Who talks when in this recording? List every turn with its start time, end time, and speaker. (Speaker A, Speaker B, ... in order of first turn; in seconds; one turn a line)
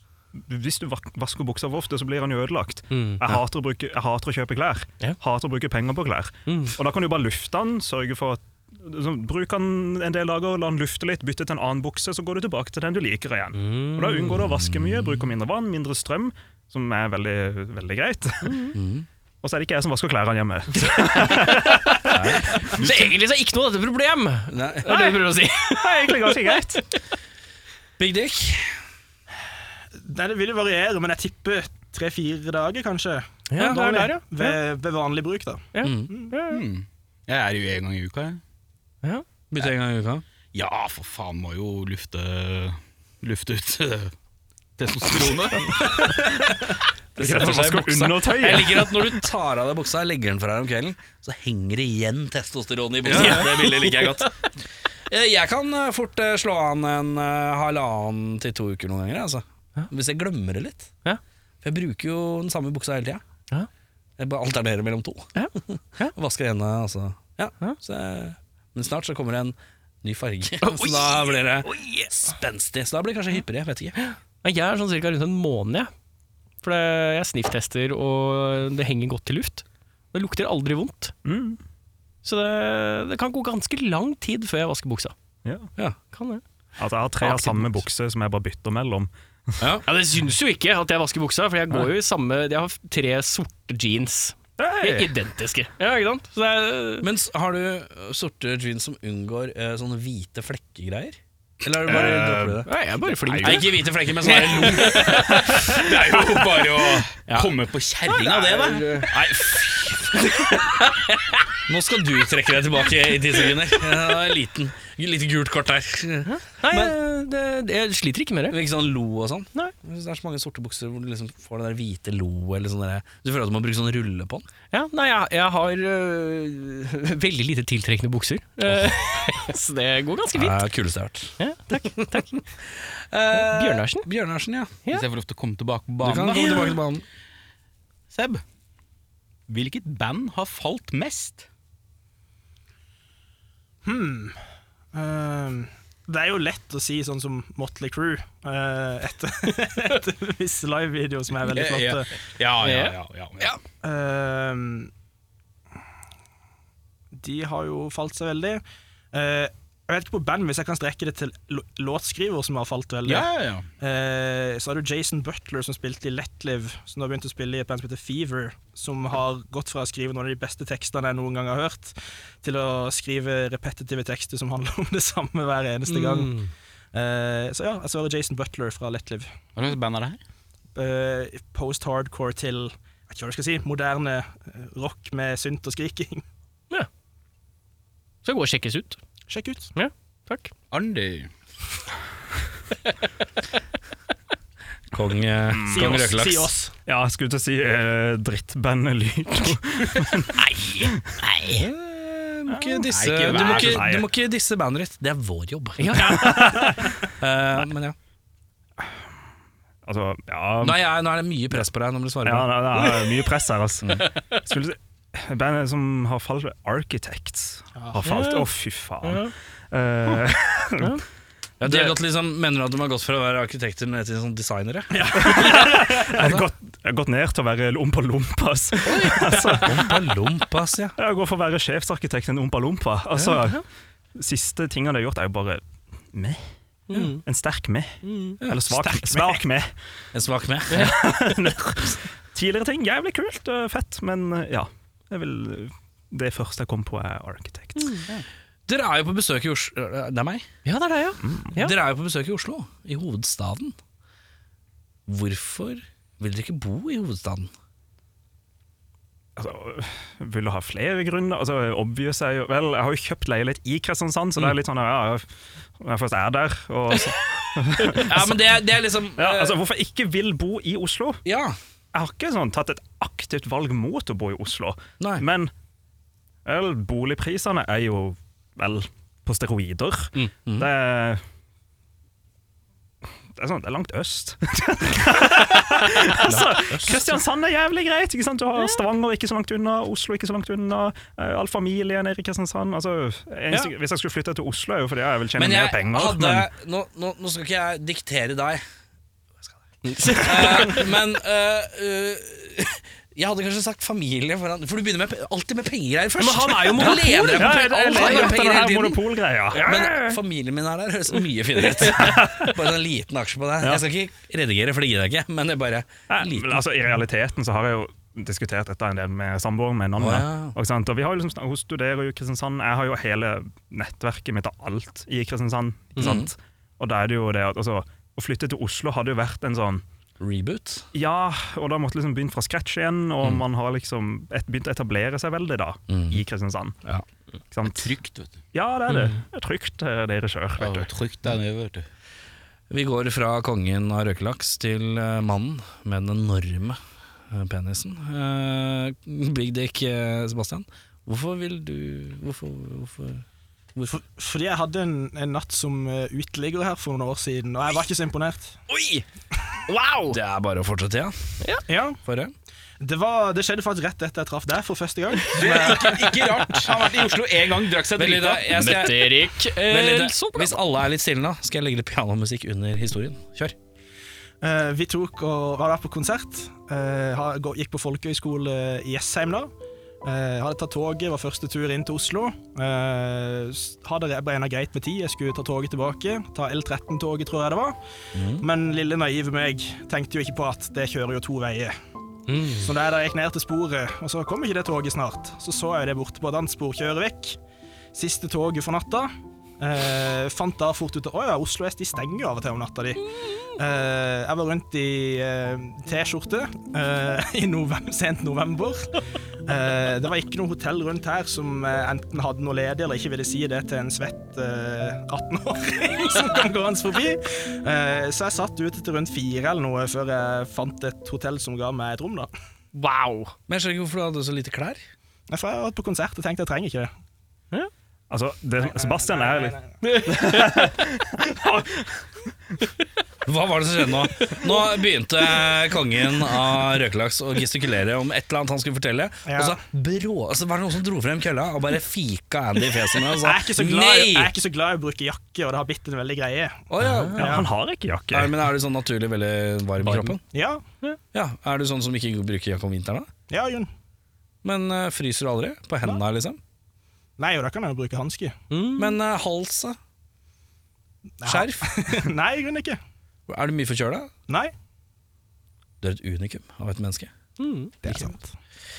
Speaker A: 0.3-18.7
Speaker B: 2.9-3.2
Speaker B: 6.5-6.8
Speaker B: 13.6-14.4
Speaker C: 14.4-15.2
Speaker B: 18.4-18.7
Speaker C: 18.7-19.1
Speaker A: 19.4-22.7
Speaker B: 20.8-27.0
Speaker C: 22.1-22.9
Speaker C: 24.5-25.0
Speaker A: 24.9-26.8
Speaker C: 28.0-28.8
Speaker D: 30.0-36.3
Speaker B: 33.5-34.6
Speaker B: 35.7-36.6
Speaker C: 35.8-36.1
Speaker E: 36.5-38.4
Speaker C: 39.5-40.2
Speaker E: 40.5-44.1
Speaker E: 44.8-45.6
Speaker C: 47.1-54.3
Speaker A: 47.2-49.2
Speaker B: 53.1-54.3
Speaker C: 55.1-60.9
Speaker C: 61.6-63.2
Speaker C: 64.2-74.0
Speaker B: 65.3-66.1
Speaker B: 70.6-72.3
Speaker B: 74.0-75.9
Speaker B: 76.6-81.1
Speaker A: 81.2-81.6
Speaker B: 82.2-85.1
Speaker A: 85.4-85.7
Speaker B: 86.1-86.4
Speaker A: 86.8-89.6
Speaker B: 87.2-87.8
Speaker B: 89.8-97.0
Speaker A: 94.6-95.1
Speaker C: 97.0-102.7
Speaker E: 101.8-102.6
Speaker B: 102.7-103.7
Speaker E: 103.2-103.7
Speaker C: 103.4-105.4
Speaker E: 104.2-109.0
Speaker B: 104.3-105.8
Speaker C: 107.3-107.5
Speaker B: 108.3-109.1
Speaker C: 109.1-110.3
Speaker C: 111.7-116.9
Speaker B: 116.2-118.6
Speaker C: 118.5-124.5
Speaker B: 124.7-130.6
Speaker C: 130.3-131.3
Speaker B: 131.4-132.4
Speaker C: 132.8-134.7
Speaker B: 133.3-134.1
Speaker E: 134.9-136.8
Speaker C: 136.0-137.0
Speaker B: 136.3-136.7
Speaker E: 138.1-138.4
Speaker E: 139.5-141.4
Speaker D: 143.8-144.3
Speaker D: 144.9-152.1
Speaker E: 151.4-153.5
Speaker B: 152.6-153.0
Speaker D: 153.8-154.9
Speaker D: 157.1-158.6
Speaker D: 159.1-176.4
Speaker E: 163.0-163.7
Speaker B: 175.9-176.5
Speaker D: 176.9-179.3
Speaker E: 179.6-180.2
Speaker D: 180.7-186.2
Speaker B: 188.2-189.0
Speaker D: 189.3-189.7
Speaker B: 189.7-190.5
Speaker E: 190.7-191.3
Speaker C: 194.9-196.5
Speaker A: 195.5-196.1
Speaker D: 195.7-196.7
Speaker A: 196.8-201.1
Speaker B: 200.4-201.6
Speaker C: 201.5-206.4
Speaker A: 202.5-204.1
Speaker E: 202.9-203.9
Speaker B: 205.8-206.8
Speaker A: 206.0-207.0
Speaker C: 207.2-207.9
Speaker A: 209.8-210.8
Speaker C: 210.6-212.8
Speaker A: 212.2-221.0
Speaker D: 217.8-218.2
Speaker B: 218.0-218.5
Speaker B: 219.0-219.3
Speaker C: 221.6-226.5
Speaker A: 221.6-221.9
Speaker D: 224.9-225.9
Speaker A: 225.2-230.0
Speaker C: 228.8-230.9
Speaker A: 231.0-233.6
Speaker B: 233.2-233.6
Speaker A: 234.1-236.4
Speaker B: 236.9-237.2
Speaker A: 237.2-239.7
Speaker B: 238.0-238.4
Speaker D: 238.8-239.4
Speaker C: 240.1-240.9
Speaker A: 240.7-248.1
Speaker B: 247.8-248.1
Speaker C: 248.7-250.5
Speaker B: 250.6-251.7
Speaker A: 251.2-251.5
Speaker C: 251.5-253.7
Speaker C: 255.1-257.5
Speaker A: 259.4-268.4
Speaker C: 267.9-269.6
Speaker A: 269.1-271.2
Speaker C: 271.2-271.6
Speaker A: 271.9-275.5
Speaker C: 275.0-275.2
Speaker A: 276.4-281.2
Speaker A: 283.3-296.5
Speaker B: 286.2-287.1
Speaker C: 295.4-298.6
Speaker B: 299.8-300.9
Speaker C: 300.1-316.7
Speaker B: 306.2-308.4
Speaker A: 306.7-310.1
Speaker A: 311.9-312.6
Speaker A: 316.1-329.8
Speaker C: 320.0-320.6
Speaker C: 326.0-326.3
Speaker C: 330.2-330.9
Speaker A: 330.9-336.8
Speaker C: 335.9-336.2
Speaker A: 337.5-337.9
Speaker E: 337.6-338.4
Speaker A: 338.5-340.9
Speaker B: 338.9-339.2
Speaker E: 340.6-341.9
Speaker C: 342.7-346.8
Speaker C: 347.3-353.2
Speaker D: 353.9-358.6
Speaker B: 358.7-359.0
Speaker B: 359.7-360.2
Speaker C: 360.1-361.3
Speaker D: 361.7-362.0
Speaker C: 362.0-362.3
Speaker D: 362.8-366.0
Speaker E: 365.3-368.6
Speaker C: 367.9-373.5
Speaker B: 368.5-370.6
Speaker D: 374.4-379.5
Speaker D: 380.0-387.8
Speaker C: 388.1-388.5
Speaker D: 388.4-391.7
Speaker B: 392.3-392.7
Speaker D: 392.6-397.4
Speaker D: 397.9-408.9
Speaker D: 409.5-422.3
Speaker B: 422.7-423.3
Speaker C: 423.5-424.8
Speaker D: 425.3-426.9
Speaker A: 428.1-432.1
Speaker D: 428.6-429.8
Speaker B: 429.8-430.7
Speaker C: 433.2-444.3
Speaker D: 439.3-439.6
Speaker D: 443.1-447.5
Speaker C: 446.7-447.4
Speaker B: 446.8-447.2
Speaker A: 447.2-448.4
Speaker C: 448.1-450.2
Speaker B: 449.8-450.1
Speaker D: 450.3-450.6
Speaker C: 451.1-453.1
Speaker D: 453.3-453.7
Speaker C: 454.4-456.4
Speaker D: 457.2-458.4
Speaker B: 458.5-459.0
Speaker C: 458.8-459.8
Speaker D: 461.2-462.8
Speaker C: 461.2-461.8
Speaker C: 463.3-464.1
Speaker D: 464.3-464.5
Speaker C: 465.8-467.1
Speaker B: 467.4-467.9
Speaker D: 467.8-468.3